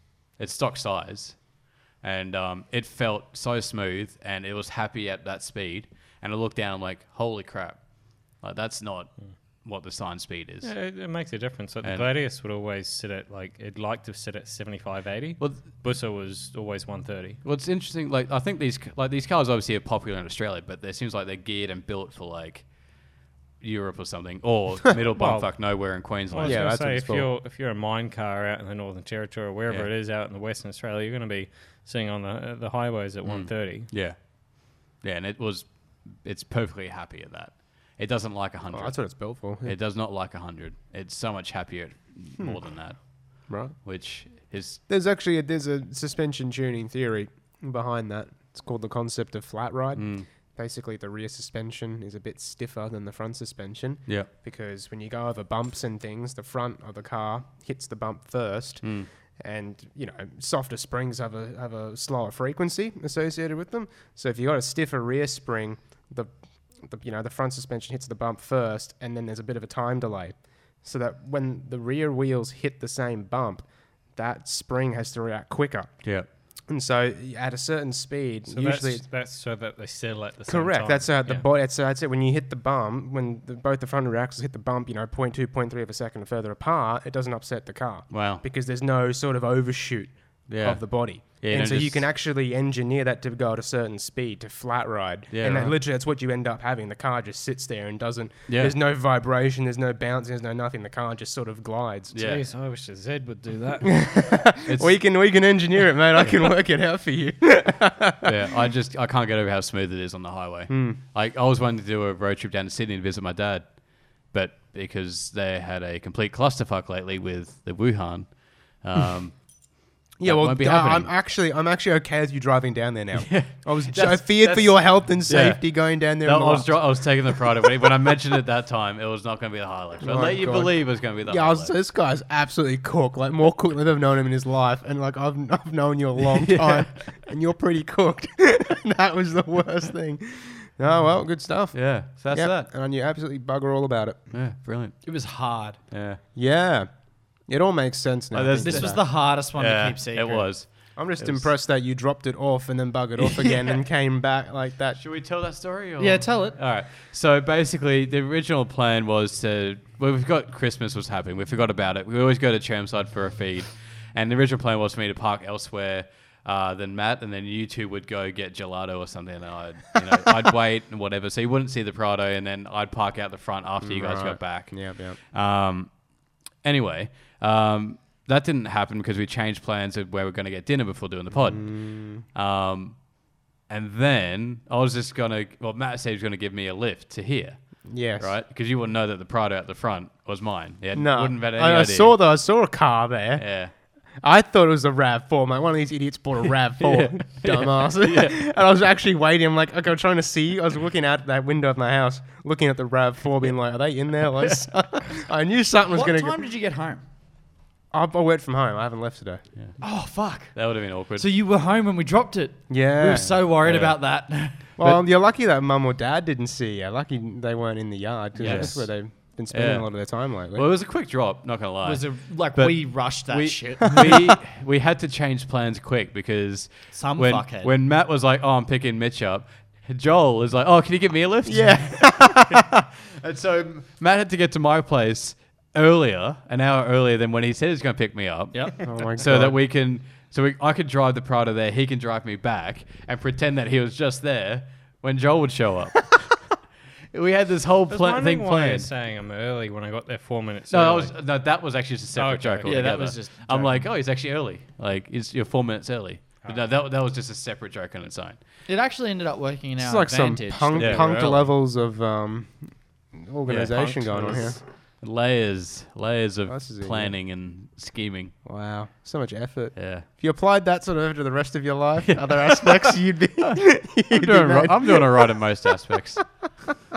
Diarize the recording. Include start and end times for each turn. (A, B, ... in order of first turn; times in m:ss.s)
0:00.4-0:10.8 A
0:10.6-0:17.4 B
0:11.8-0:12.1 A
0:15.4-0:15.6 A
0:17.4-0:26.7 A
0:25.1-0:33.9 B
0:26.4-0:27.3 C
0:33.2-0:44.8 A
0:38.7-0:39.8 C
0:42.4-0:42.9 C
0:43.5-0:43.8 C
0:44.9-1:19.1 C
0:50.0-0:50.3 A
0:58.8-0:59.1 A
1:18.5-1:21.4 B
1:20.5-1:42.2 C
1:28.1-1:28.4 A
1:30.5-1:32.1 A
1:35.3-1:35.8 A
1:38.5-1:38.8 A
1:42.1-1:42.4 A
1:42.2-1:44.1 B
1:43.9-1:48.3 C
1:44.6-1:45.0 A
1:46.2-1:46.4 A
1:48.2-2:01.1 A
1:50.7-1:51.0 C
2:00.2-2:07.4 C
2:03.1-2:11.7 A
2:10.0-2:24.3 C
2:16.4-2:17.0 A
2:21.7-2:22.7 A
2:24.3-2:25.2 A
2:25.0-2:25.8 D
2:25.9-2:26.2 A
2:26.4-2:29.0 C
2:28.3-2:31.5 A
2:28.6-2:30.5 D
2:31.0-2:35.0 C
2:35.0-3:12.2 A
2:36.0-2:36.6 D
2:53.8-2:55.2 C
3:01.3-3:02.2 C
3:07.8-3:08.3 C
3:10.9-3:26.4 C
3:13.4-3:13.7 A
3:16.8-3:18.4 A
3:25.9-3:27.0 D
3:27.9-3:29.4 C
3:29.6-3:31.3 A
3:29.8-3:34.7 D
3:32.7-3:33.3 C
3:33.1-3:35.0 A
3:34.8-3:40.7 C
3:38.4-3:38.8 D
3:38.4-4:06.5 A
3:41.8-3:44.2 D
3:46.9-3:47.8 D
3:51.4-3:52.7 C
3:58.5-3:58.9 D
3:58.8-3:59.6 C
4:07.1-4:08.9 A
4:07.9-4:11.1 B
4:10.7-4:18.4 A
4:12.2-4:13.9 D
4:12.2-4:12.8 B
4:18.7-4:21.6 D
4:19.8-4:24.6 C
4:20.8-4:21.4 A
4:23.5-4:28.3 A
4:26.5-4:27.2 C
4:28.4-4:35.4 C
4:29.8-4:30.1 A
4:32.0-4:36.2 A